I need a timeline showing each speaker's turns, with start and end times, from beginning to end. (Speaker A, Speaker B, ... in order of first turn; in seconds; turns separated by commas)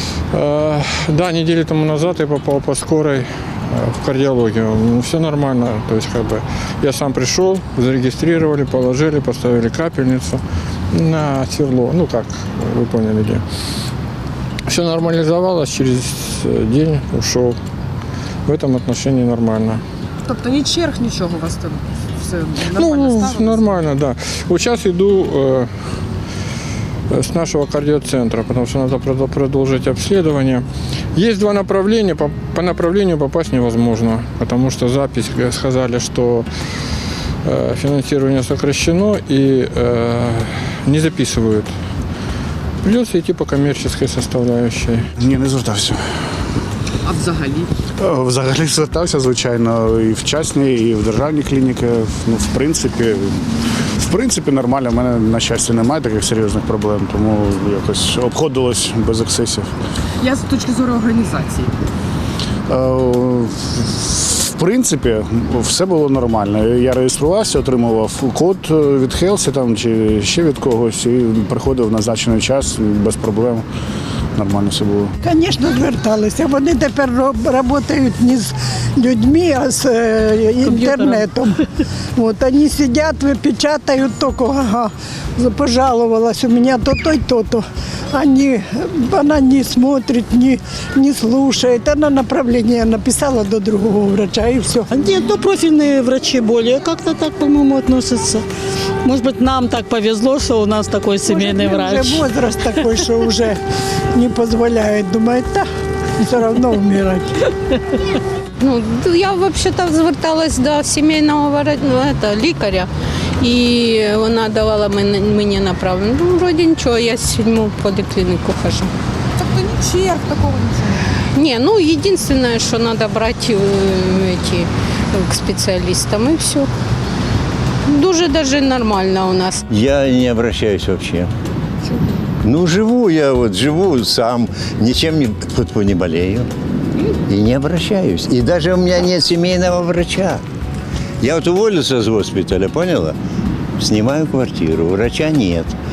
Speaker A: 0.3-10.4, Speaker A: 10.9-13.4, Speaker A: 14.7-17.6, Speaker A: 18.4-19.8, Speaker B: 20.2-23.6, Speaker A: 22.7-25.7, Speaker A: 27.1-36.5, Speaker A: 37.4-41.7, Speaker A: 42.8-45.0, Speaker C: 45.2-46.0, Speaker B: 47.0-47.7, Speaker C: 48.0-53.4, Speaker C: 54.0-59.7, Speaker B: 60.2-61.7, Speaker C: 62.7-73.7, Speaker C: 74.3-75.1, Speaker D: 75.2-81.5, Speaker E: 80.7-81.2, Speaker D: 82.1-94.9, Speaker E: 94.9-98.5, Speaker E: 99.0-102.2, Speaker D: 101.3-103.6, Speaker D: 104.1-105.7, Speaker D: 106.2-107.5, Speaker F: 108.6-112.9, Speaker F: 113.4-118.9, Speaker B: 119.4-121.2, Speaker F: 121.2-126.7, Speaker F: 127.8-129.6, Speaker G: 129.7-131.3, Speaker G: 132.4-136.5, Speaker G: 137.3-140.4, Speaker G: 141.2-143.2, Speaker G: 143.8-145.8